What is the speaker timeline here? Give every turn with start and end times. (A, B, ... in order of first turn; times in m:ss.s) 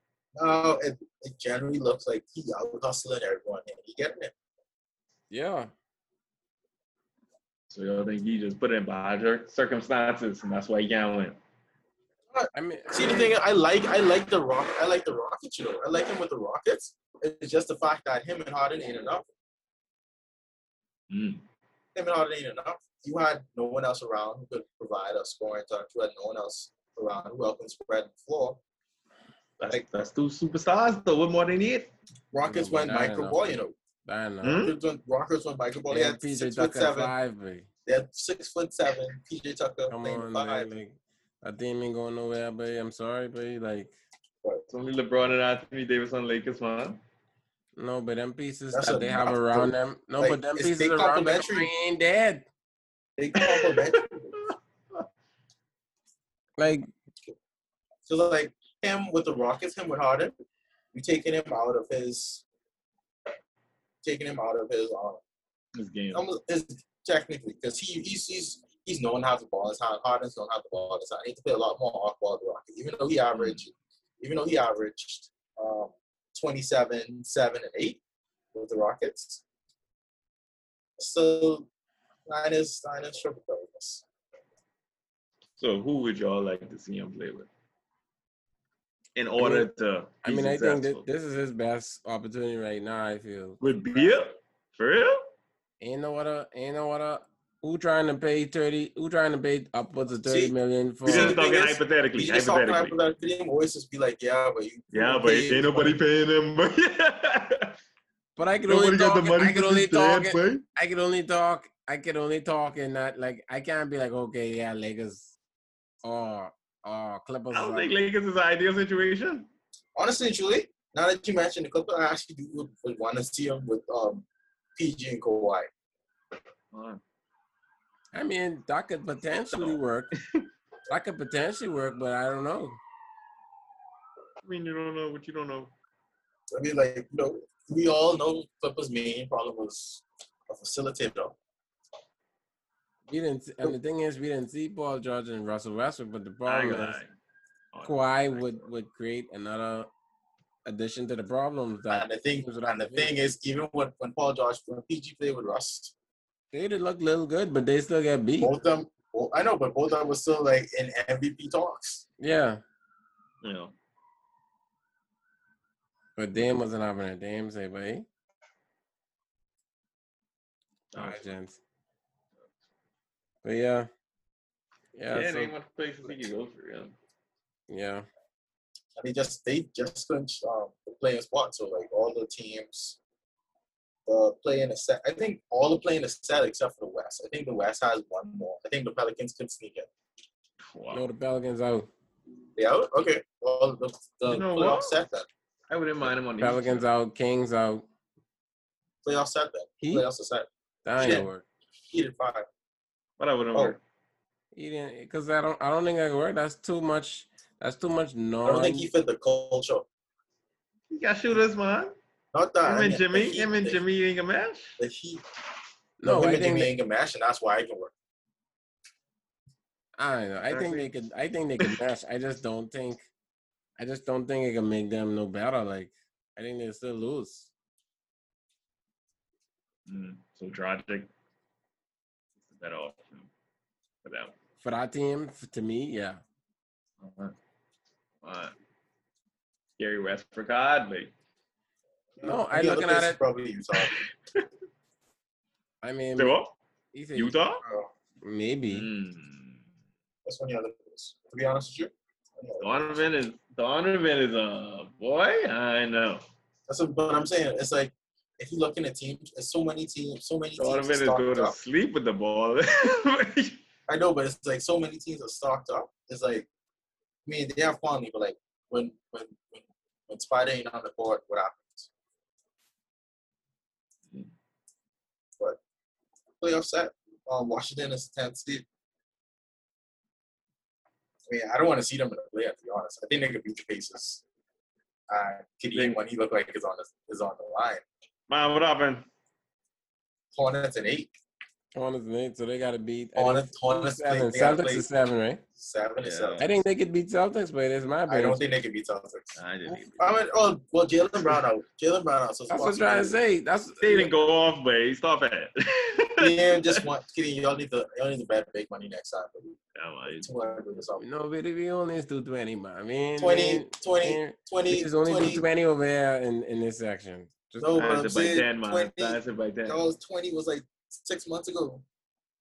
0:00.4-0:04.3 A
0:05.3-0:05.7 B
0:07.7-0:11.4 C
0:12.3-0:19.3 A
0:12.5-0:13.3 B
0:21.1-0:21.4 C
0:21.9-0:28.6 A
0:29.6-0:31.9 C
0:32.3-0:33.7 A
0:32.4-0:34.6 B
0:34.4-0:34.8 C
0:34.5-0:37.1 A
0:35.9-0:37.7 B
0:37.8-0:40.7 A
0:39.9-0:43.9 B
0:44.7-0:47.0 C
0:47.8-0:52.4 B
0:48.7-0:51.7 A
0:53.2-0:54.4 A
0:53.4-0:55.1 C
0:56.6-0:56.9 B
0:58.0-1:00.3 A
1:00.9-1:02.4 A
1:04.0-1:05.2 A
1:05.7-1:06.2 C
1:06.1-1:18.0 A
1:13.3-1:13.6 C
1:18.5-1:19.4 A
1:21.0-1:21.7 A
1:22.2-1:24.0 A
1:25.6-1:27.5 C
1:29.2-1:31.1 C
1:29.4-1:29.7 B
1:30.2-1:33.6 B
1:33.6-1:35.2 C
1:35.8-1:41.4 B
1:40.2-1:46.0 A
1:41.0-1:43.0 C
1:44.9-1:47.8 C
1:48.4-1:55.3 B
1:48.7-1:50.6 C
1:56.0-1:57.9 B
1:57.5-1:59.5 C
2:00.0-2:04.2 A
2:04.8-2:05.7 A
2:06.7-2:07.0 C
2:08.1-2:10.1 B
2:09.5-2:10.5 C
2:10.9-2:12.8 B
2:14.4-2:15.7 C
2:16.5-2:21.4 A
2:23.1-2:27.0 B
2:26.4-2:27.1 C
2:27.7-2:28.7 C
2:27.8-2:29.9 B
2:30.6-2:33.2 B
2:31.9-2:35.9 A
2:36.5-2:38.5 B
2:38.4-2:42.0 A
2:42.2-2:42.6 B
2:43.4-2:43.7 C
2:46.2-2:48.1 B
2:50.9-2:51.3 C
2:50.9-2:51.6 B
2:53.4-2:53.9 B
2:54.9-2:55.5 B
2:55.1-2:57.0 C
2:57.7-2:58.0 B
2:59.0-3:03.0 A
3:04.0-3:09.9 A
3:10.6-3:11.0 C
3:10.9-3:11.9 B
3:12.6-3:15.3 A
3:14.3-3:15.0 C
3:15.7-3:16.8 C
3:16.4-3:17.8 B
3:19.0-3:21.3 A
3:20.8-3:21.4 B
3:21.9-3:22.5 A
3:23.2-3:23.8 C
3:24.5-3:28.9 B
3:28.4-3:29.8 A
3:30.9-3:32.0 C
3:32.3-3:33.8 A
3:32.6-3:34.8 C
3:34.8-3:35.2 A
3:36.0-3:36.7 B
3:36.0-3:37.9 A
3:40.0-3:43.0 B
3:40.5-3:40.9 C
3:43.8-3:47.5 B
3:49.8-3:51.1 C
3:52.4-3:53.3 C
3:54.0-3:54.3 C
3:54.6-3:56.2 B
3:57.0-3:57.4 C
3:58.2-3:58.5 C
3:59.8-4:01.1 C
4:02.2-4:04.1 A
4:02.2-4:03.2 B
4:03.7-4:04.5 C
4:05.8-4:06.4 B
4:06.2-4:06.5 C
4:06.9-4:07.4 B
4:07.1-4:07.6 C
4:07.6-4:07.9 A
4:08.2-4:08.9 B
4:08.7-4:09.6 C
4:10.2-4:13.0 A
4:12.6-4:16.2 C
4:16.7-4:21.6 A
4:20.5-4:23.6 C
4:23.9-4:26.5 A
4:27.2-4:31.9 A
4:36.4-4:38.6 A
4:41.3-4:44.2 A
4:45.1-4:47.8 A
4:45.7-4:46.0 C
4:48.3-4:49.1 C
4:50.3-4:51.1 A
4:51.7-4:55.4 B
4:53.2-4:54.9 A
4:55.6-4:56.5 A
4:56.0-4:56.5 C
4:56.4-4:58.4 B
4:58.1-5:03.1 A
4:59.4-5:00.2 C
5:02.5-5:04.1 B
5:03.8-5:06.8 C
5:06.2-5:09.6 A
5:09.7-5:10.3 C
5:10.1-5:11.0 A
5:11.0-5:17.9 B
5:13.2-5:15.4 A
5:17.6-5:21.8 A
5:17.8-5:19.8 C